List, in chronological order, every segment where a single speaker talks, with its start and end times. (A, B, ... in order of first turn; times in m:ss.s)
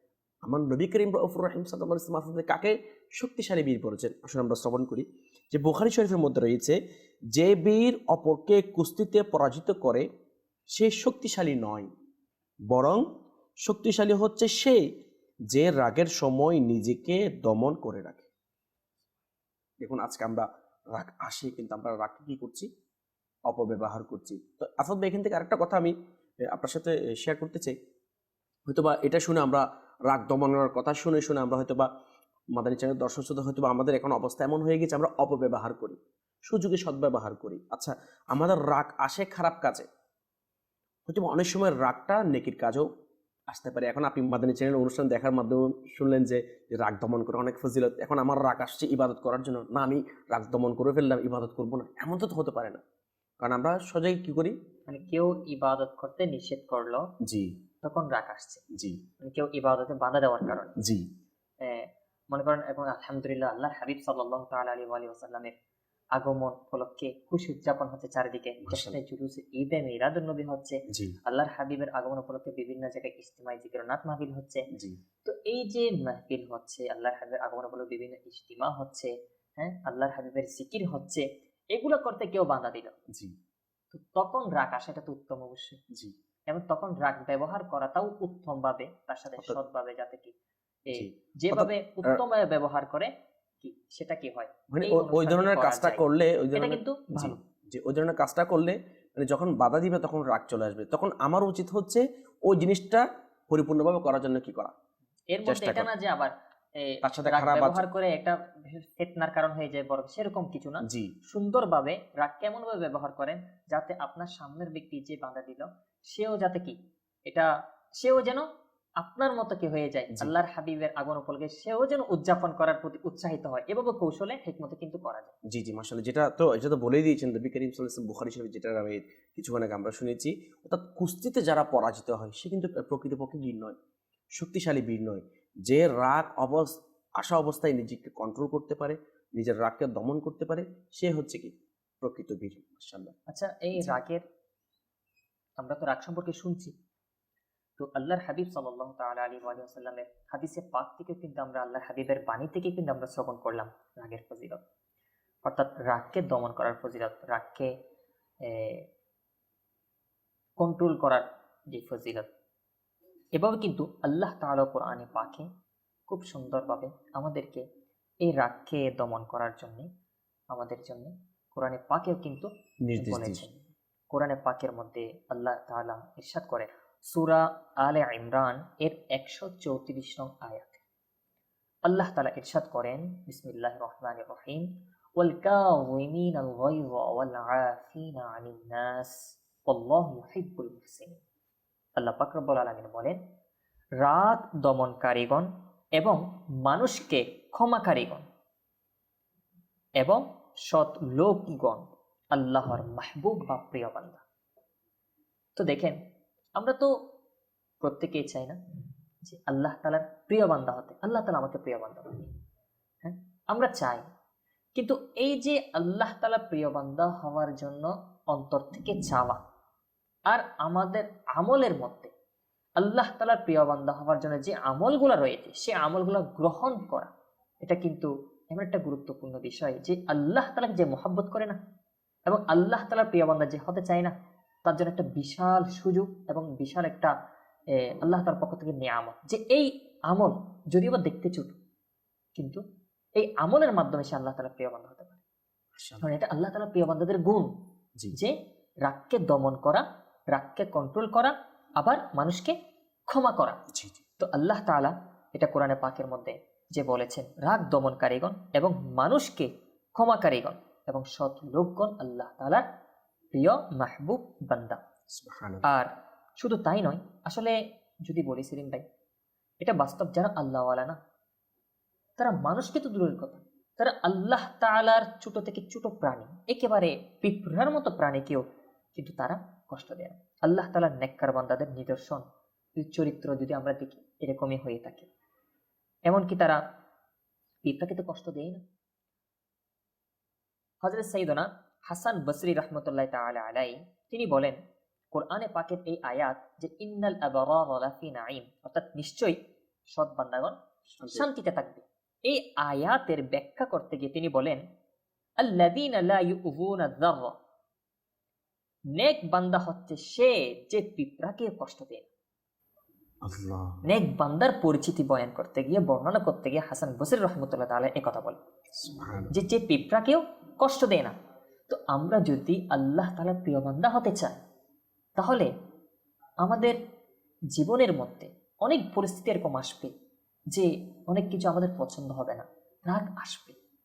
0:00.4-0:06.8 A
0:07.3-0:10.1 A
0:10.7-0:11.9 A
0:12.7-0:13.0 A
0:13.6-0:14.8 A
0:15.5-0:18.3 A
0:19.8-0:22.7 A
0:23.5-0:25.9 A
0:26.4-0:27.8 A
0:28.7-0:31.9 A
0:32.5-0:39.9 A
0:41.1-0:42.9 A
0:43.5-0:52.8 A
0:53.4-0:54.6 A
0:54.9-0:57.1 B
0:57.2-0:57.6 A
0:57.8-0:58.6 B
0:58.7-0:59.0 A
0:59.2-1:00.8 B
1:00.8-1:01.1 A
1:01.6-1:05.6 B
1:06.2-1:14.7 B
1:08.6-1:09.0 A
1:10.9-1:11.2 A
1:14.7-1:15.0 A
1:15.2-1:23.0 B
1:23.1-1:23.4 A
1:23.9-1:25.8 B
1:26.5-1:30.3 B
1:30.9-1:33.1 B
1:31.0-1:32.2 A
1:33.6-1:36.0 B
1:34.7-1:44.7 A
1:36.6-1:37.4 B
1:45.3-1:58.5 B
1:45.5-1:45.9 A
1:47.0-1:47.8 A
1:50.8-1:51.1 A
1:59.0-2:05.3 B
2:05.5-2:13.8 A
2:14.4-2:23.2 A
2:23.3-2:24.2 B
2:25.6-2:26.7 B
2:27.8-2:34.6 B
2:35.4-2:37.7 B
2:38.4-2:38.8 B
2:40.6-2:42.3 B
2:43.4-2:45.5 B
2:46.1-2:47.6 B
2:48.2-2:49.9 B
2:50.5-3:00.8 B
2:52.9-2:53.4 A
3:01.9-3:11.2 B
3:12.0-3:13.2 B
3:14.0-3:18.2 B
3:20.0-3:24.2 B
3:25.6-3:26.0 B
3:26.6-3:27.0 B
3:27.8-3:28.6 B
3:29.2-3:32.3 B
3:33.0-3:34.0 B
3:34.8-3:39.4 B
3:40.3-3:42.1 B
3:42.8-3:47.1 B
3:47.6-3:51.6 B
3:52.3-3:54.1 B
3:54.7-3:57.1 B
3:57.8-4:01.6 B
4:02.4-4:02.6 B
4:03.2-4:05.2 B
4:05.8-4:06.0 A
4:06.0-4:07.5 B
4:08.2-4:12.6 B
4:13.1-4:13.6 B
4:13.7-4:14.0 A
4:14.2-4:22.6 B
4:23.3-4:24.8 B
4:25.1-4:25.7 A
4:25.6-4:28.8 B
4:29.6-4:31.0 B
4:32.2-4:38.4 B
4:39.0-4:42.2 B
4:42.8-4:45.1 B
4:46.1-4:46.6 B
4:47.6-4:48.6 B
4:50.8-4:54.6 B
4:55.1-5:00.6 B
5:00.9-5:01.3 A
5:01.1-5:04.6 B
5:05.4-5:07.4 B
5:08.9-5:12.1 B
5:13.2-5:13.8 A
5:13.8-5:18.4 B
5:18.8-5:19.3 A
5:19.3-5:21.1 B
5:21.7-5:24.4 B
5:25.2-5:25.5 B
5:26.4-5:26.8 B
5:27.5-5:29.9 B
5:30.5-5:33.6 B